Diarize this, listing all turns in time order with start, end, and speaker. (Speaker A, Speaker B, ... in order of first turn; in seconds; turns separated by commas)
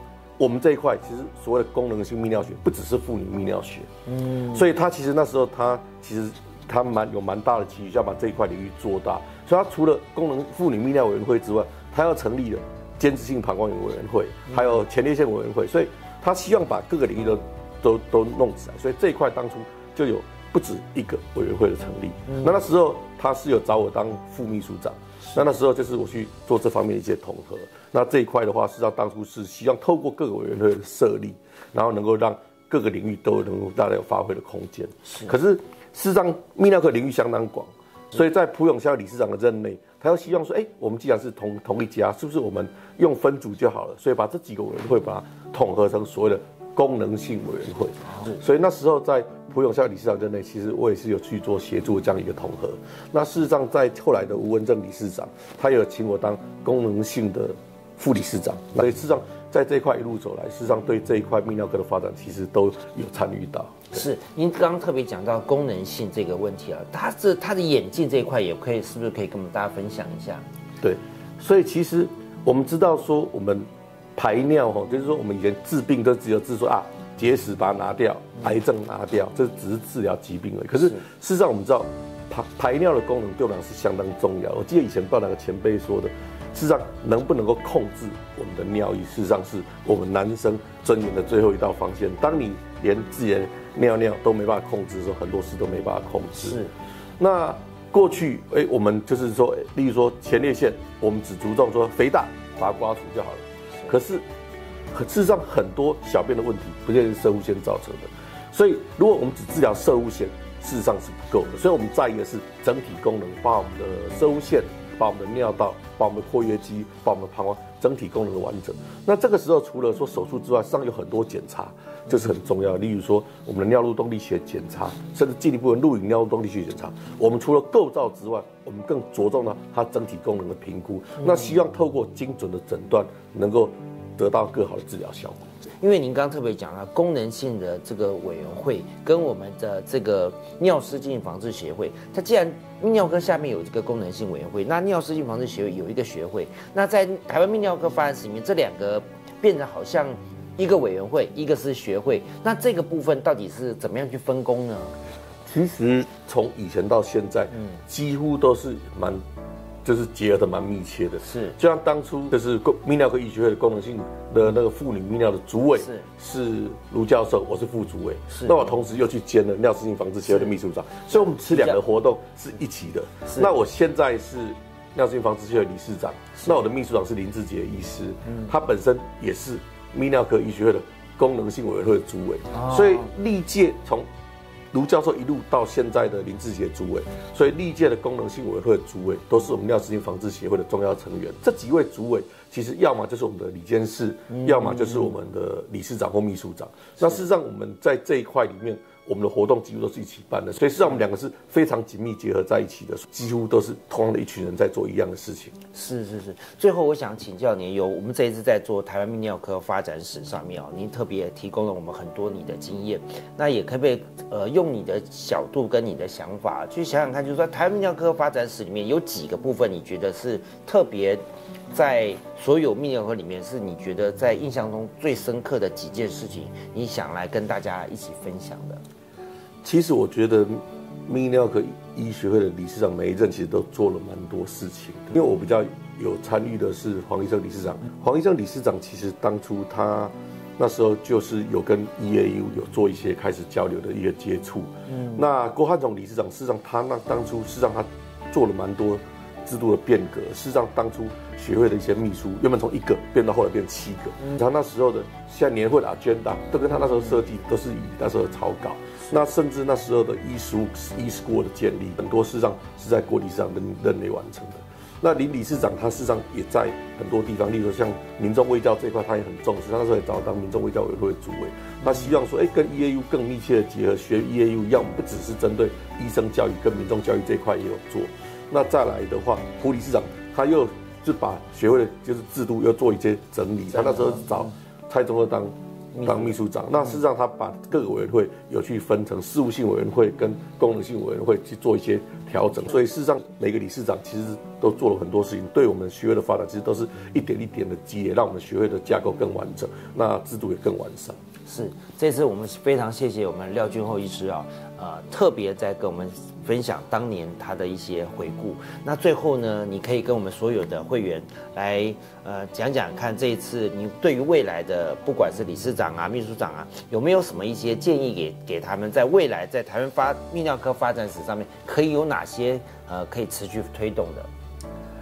Speaker A: 0.4-3.9, Speaker B: 4.1-4.7, Speaker A: 4.5-64.0, Speaker B: 14.5-14.8, Speaker B: 22.3-22.6, Speaker B: 63.9-70.4, Speaker A: 70.8-96.6, Speaker B: 96.3-96.7, Speaker A: 97.2-104.2, Speaker A: 104.9-135.5, Speaker B: 131.2-131.5, Speaker B: 135.8-155.0, Speaker A: 155.4-159.2, Speaker B: 157.5-157.8, Speaker A: 159.8-184.1, Speaker B: 161.2-161.6, Speaker B: 165.8-166.1, Speaker B: 168.3-168.7, Speaker B: 171.1-171.8, Speaker B: 173.3-173.5, Speaker B: 182.5-183.1, Speaker A: 184.7-205.5, Speaker B: 194.3-195.1, Speaker B: 197.0-197.2, Speaker B: 205.7-228.8, Speaker A: 229.6-301.2, Speaker B: 244.9-245.2, Speaker B: 271.8-272.2, Speaker B: 283.7-284.5, Speaker B: 285.9-286.4, Speaker B: 301.5-324.3